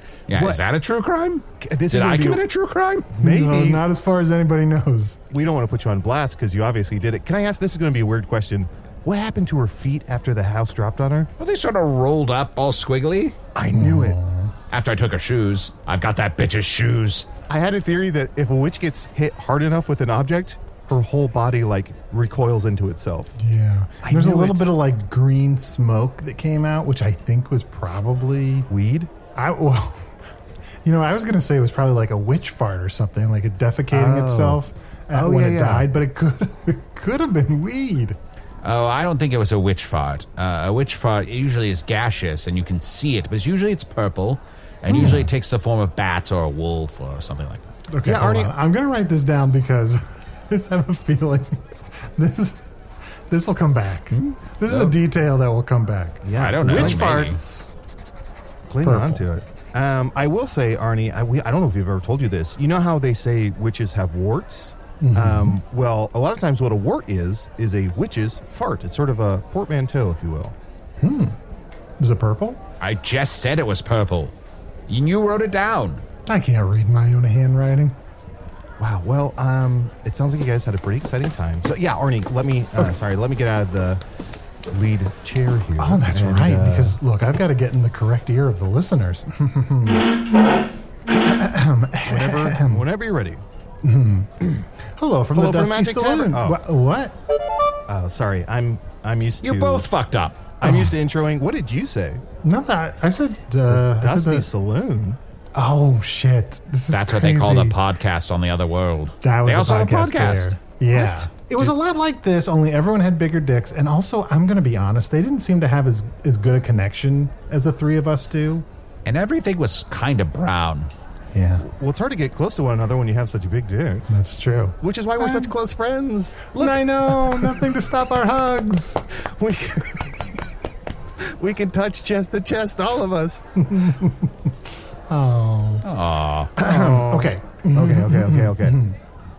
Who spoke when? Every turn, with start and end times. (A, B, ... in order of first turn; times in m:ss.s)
0:00.3-0:03.1 A
0:00.3-0:00.6 B
0:01.6-0:02.4 B
0:03.1-0:03.8 B
0:03.2-0:05.2 C
0:05.3-0:11.3 B
0:11.4-0:13.4 A
0:13.6-0:14.2 B
0:13.8-0:14.5 C
0:14.7-0:17.3 A
0:17.5-0:23.4 B
0:23.4-0:28.7 C
0:24.0-0:24.7 B
0:28.7-0:29.1 B
0:29.4-0:30.1 C
0:30.8-0:38.2 C
0:33.9-0:35.9 B
0:38.6-0:47.6 A
0:44.9-0:45.3 C
0:47.9-0:52.7 C
0:48.0-0:48.5 B
0:53.3-0:57.7 C
0:56.2-0:57.3 B
0:56.3-0:57.4 A
0:58.7-1:10.6 B
0:58.8-0:59.2 C
1:05.0-1:05.6 C
1:11.0-1:11.4 C
1:12.0-1:12.6 C
1:12.8-1:14.3 A
1:14.9-1:16.0 A
1:16.3-1:18.0 C
1:18.8-1:24.0 B
1:24.7-1:27.0 B
1:25.8-1:30.2 C
1:31.1-1:32.8 C
1:32.1-1:33.4 B
1:33.8-1:34.3 C
1:35.0-1:37.2 C
1:35.4-1:36.6 B
1:37.9-1:39.9 B
1:39.4-1:40.5 A
1:40.6-1:42.2 B
1:40.6-1:40.9 C
1:42.4-1:44.5 C
1:43.7-1:45.2 B
1:45.6-1:47.8 C
1:46.9-1:51.7 A
1:49.2-1:58.7 C
1:59.0-2:00.9 A
2:01.3-2:01.6 C
2:01.6-2:04.1 B
2:04.1-2:05.5 C
2:04.8-2:07.7 B
2:06.6-2:09.0 C
2:09.2-2:10.2 B
2:11.2-2:13.4 B
2:13.6-2:14.5 C
2:15.1-2:15.8 C
2:15.8-2:16.5 A
2:16.6-2:19.0 C
2:16.6-2:18.8 B